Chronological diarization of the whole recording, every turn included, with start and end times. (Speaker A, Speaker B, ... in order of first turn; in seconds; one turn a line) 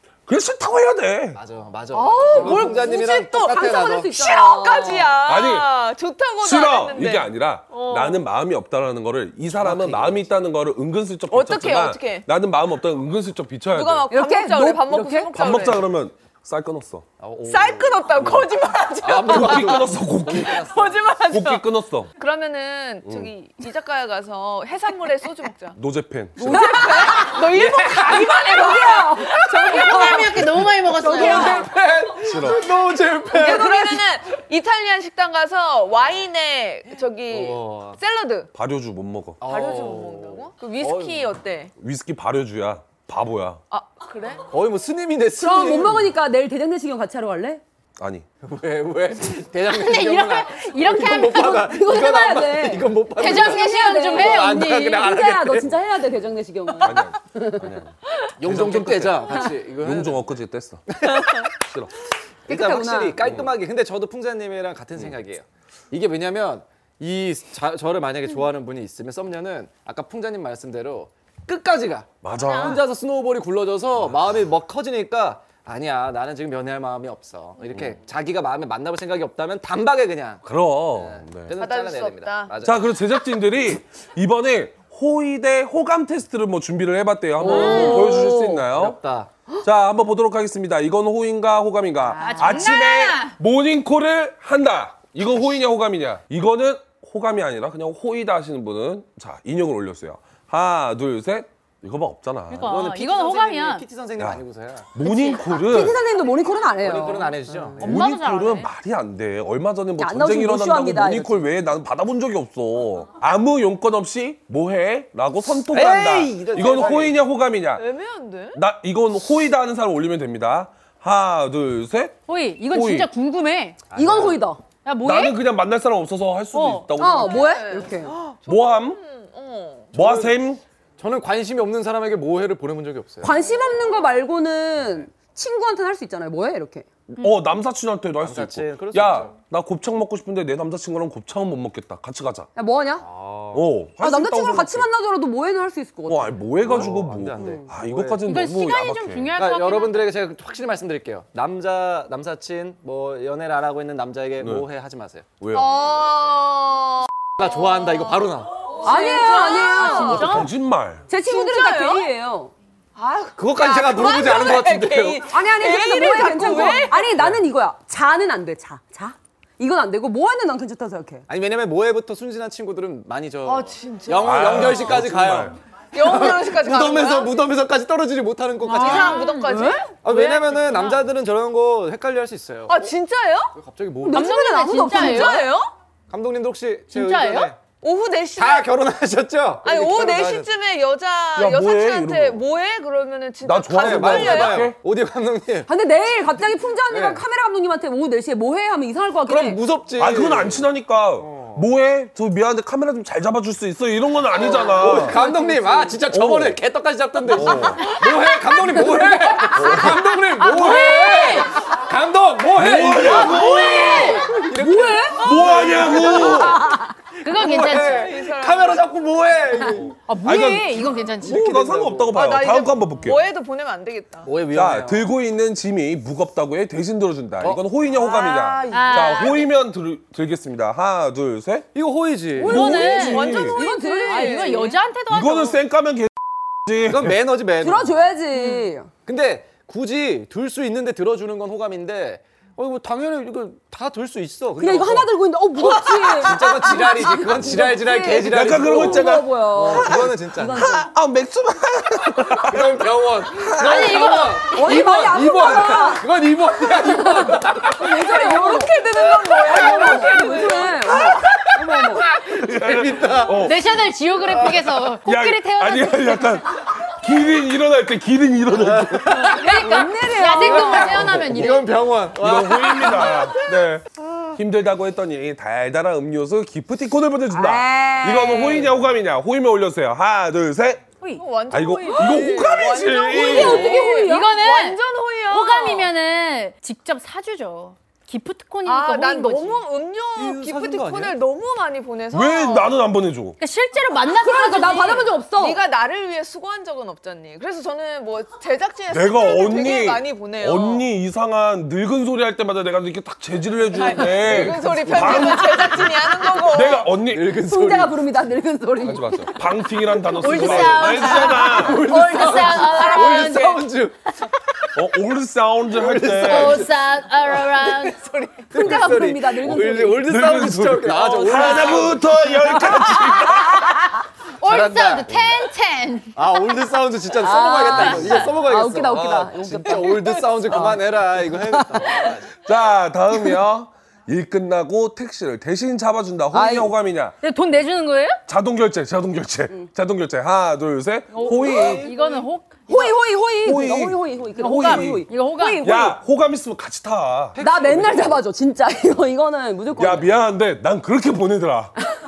Speaker A: 0.3-1.4
Speaker B: 1.3-4.1
Speaker C: 1.9-5.2
Speaker D: 2.2-7.3
Speaker A: 5.2-5.8
Speaker A: 6.4-14.1
Speaker E: 7.7-8.2
Speaker B: 9.5-10.3
Speaker D: 11.3-12.2
Speaker D: 13.7-15.8
Speaker C: 14.1-15.3
Speaker A: 15.3-17.1
Speaker B: 17.2-18.4
Speaker D: 17.5-21.6
Speaker A: 18.2-18.4
Speaker B: 19.0-21.0
Speaker A: 19.2-20.6
Speaker A: 21.3-22.1
Speaker D: 22.2-25.8
Speaker A: 23.0-23.3
Speaker A: 25.7-26.8
Speaker D: 26.4-30.4
Speaker C: 26.4-31.6
Speaker B: 27.0-28.6
Speaker E: 29.7-31.6
Speaker B: 30.9-33.9
Speaker A: 32.2-32.6
Speaker D: 33.3-38.5
Speaker C: 33.6-33.9
Speaker B: 37.3-38.0
Speaker A: 38.5-39.4
Speaker B: 39.4-41.3
Speaker D: 39.4-41.7
Speaker A: 41.8-43.6
Speaker D: 43.7-44.4
Speaker B: 44.5-46.1
Speaker C: 45.4-47.6
Speaker A: 48.0-48.2
Speaker B: 48.4-55.7
Speaker E: 49.7-51.7
Speaker C: 51.3-57.7
Speaker E: 53.1-55.1
Speaker A: 56.8-61.9
Speaker B: 58.4-60.3
Speaker B: 60.9-61.4
Speaker C: 62.5-63.2
Speaker B: 62.5-82.9
Speaker A: 63.2-63.5
Speaker A: 72.2-72.8
Speaker A: 74.0-74.3
Speaker A: 80.4-81.5
Speaker D: 81.6-82.5
Speaker A: 82.6-89.0
Speaker C: 87.4-88.6
Speaker B: 87.4-89.3
Speaker A: 89.6-102.8
Speaker E: 92.2-93.3
Speaker E: 102.5-103.8
Speaker B: 102.6-104.9
Speaker A: 104.9-106.0
Speaker E: 105.0-105.4
Speaker C: 105.4-107.8
Speaker B: 106.8-107.9
Speaker A: 107.8-117.9
Speaker E: 107.8-108.7
Speaker C: 110.0-111.4
Speaker B: 115.7-117.2
Speaker D: 117.7-118.6
Speaker A: 118.5-122.2
Speaker E: 122.3-123.8
Speaker A: 122.7-123.1
Speaker B: 123.9-124.4
Speaker C: 123.9-124.6
Speaker E: 124.8-125.4
Speaker A: 125.0-127.5
Speaker E: 126.5-126.9
Speaker C: 127.0-128.2
Speaker D: 127.0-129.9
Speaker A: 128.4-129.0
Speaker B: 129.9-130.4
Speaker A: 129.9-130.6
Speaker B: 131.0-133.3
Speaker C: 133.2-136.9
Speaker D: 133.4-133.8
Speaker A: 137.1-142.5
Speaker B: 138.2-139.3
Speaker C: 142.6-143.1
Speaker B: 143.0-143.7
Speaker A: 143.5-144.9
Speaker C: 144.0-146.4
Speaker A: 146.1-149.3
Speaker B: 146.6-148.2
Speaker C: 147.4-147.7
Speaker E: 148.2-150.1
Speaker B: 149.4-155.2
Speaker A: 154.4-154.7
Speaker A: 155.4-155.8
Speaker D: 155.5-158.2
Speaker B: 157.4-158.8
Speaker D: 158.8-160.5
Speaker C: 158.8-160.4
Speaker E: 159.7-160.5
Speaker A: 160.1-161.1
Speaker C: 161.1-162.5
Speaker D: 161.2-162.1
Speaker D: 162.9-167.1
Speaker B: 163.4-165.2
Speaker C: 165.3-171.2
Speaker B: 171.3-179.2
Speaker D: 173.4-175.0
Speaker A: 174.2-175.5
Speaker D: 175.9-177.4
Speaker E: 178.7-179.7
Speaker D: 178.7-181.0
Speaker C: 178.9-179.8
Speaker B: 180.0-182.9
Speaker D: 182.7-183.5
Speaker B: 183.5-184.3
Speaker C: 184.0-185.5
Speaker E: 184.1-185.4
Speaker D: 184.7-185.7
Speaker B: 186.1-187.6
Speaker E: 186.9-187.5
Speaker D: 187.8-188.7
Speaker B: 188.3-190.5
Speaker D: 189.6-194.7
Speaker A: 191.3-192.4
Speaker A: 193.4-194.8
Speaker B: 193.7-195.7
Speaker C: 195.7-199.6
Speaker B: 196.9-197.2
Speaker B: 199.2-200.7
Speaker A: 200.0-205.2
Speaker B: 201.2-201.6
Speaker B: 204.3-220.0
Speaker C: 204.8-206.0
Speaker A: 206.1-206.6
Speaker A: 207.3-207.8
Speaker C: 208.7-210.0
Speaker A: 209.5-210.0
Speaker E: 210.4-211.5
Speaker A: 212.6-214.2
Speaker C: 213.3-215.4
Speaker E: 213.4-214.1
Speaker A: 215.1-216.6
Speaker D: 215.3-216.3
Speaker C: 216.0-216.9
Speaker E: 217.2-218.1
Speaker D: 217.5-218.9
Speaker E: 220.1-221.4
Speaker A: 220.2-223.2
Speaker B: 221.2-222.2
Speaker D: 222.1-224.3
Speaker B: 224.2-225.1
Speaker A: 224.5-231.7
Speaker D: 227.9-229.5
Speaker E: 228.7-229.4
Speaker B: 231.7-232.6
Speaker C: 232.4-234.7
Speaker D: 232.4-234.7
Speaker E: 232.4-233.4
Speaker A: 232.4-233.6
Speaker E: 234.0-235.6
Speaker A: 235.1-237.2
Speaker B: 236.8-237.9
Speaker C: 237.6-238.9
Speaker E: 238.3-238.7
Speaker B: 239.0-245.1
Speaker C: 244.6-250.9
Speaker B: 246.2-250.7
Speaker A: 248.2-254.1
Speaker B: 252.4-257.9
Speaker E: 253.6-254.6
Speaker C: 254.4-256.1
Speaker C: 256.7-262.0
Speaker D: 257.8-261.0
Speaker A: 260.9-261.6
Speaker B: 261.9-263.5
Speaker A: 262.2-263.8
Speaker E: 263.3-266.4
Speaker A: 265.0-269.4
Speaker B: 268.5-273.3
Speaker E: 269.2-271.7
Speaker C: 269.6-271.0
Speaker A: 270.9-271.4
Speaker A: 272.2-280.9
Speaker C: 277.3-278.7
Speaker D: 281.1-285.9
Speaker A: 281.5-283.8
Speaker C: 283.1-284.4
Speaker E: 283.9-289.6
Speaker D: 288.6-292.7
Speaker B: 290.1-291.2
Speaker A: 292.1-293.4
Speaker E: 293.4-295.1
Speaker C: 294.2-295.6
Speaker D: 294.6-300.8
Speaker A: 298.9-307.4
Speaker D: 303.7-306.9
Speaker B: 304.0-305.7
Speaker B: 307.0-308.0
Speaker C: 307.4-309.4
Speaker A: 308.8-311.9
Speaker E: 310.2-313.6
Speaker C: 310.2-311.0
Speaker D: 310.2-313.4
Speaker B: 310.3-314.1
Speaker A: 314.7-316.7
Speaker B: 315.7-316.7
Speaker E: 316.2-318.0
Speaker B: 317.3-317.7
Speaker D: 317.7-318.4
Speaker B: 318.5-322.2
Speaker C: 318.5-320.1
Speaker A: 320.0-323.8
Speaker C: 322.4-323.4
Speaker E: 324.4-326.4
Speaker B: 324.4-325.1
Speaker A: 325.1-325.4
Speaker B: 326.1-332.3
Speaker C: 327.1-332.1
Speaker E: 327.7-328.2
Speaker A: 332.4-337.1
Speaker C: 336.3-336.7
Speaker E: 337.2-338.2
Speaker A: 338.3-341.9
Speaker E: 341.1-342.9
Speaker B: 341.2-342.2
Speaker C: 342.7-346.0
Speaker A: 343.4-345.1
Speaker E: 344.4-345.7
Speaker A: 345.6-347.4
Speaker B: 347.3-348.2
Speaker C: 347.4-350.1
Speaker A: 349.8-351.7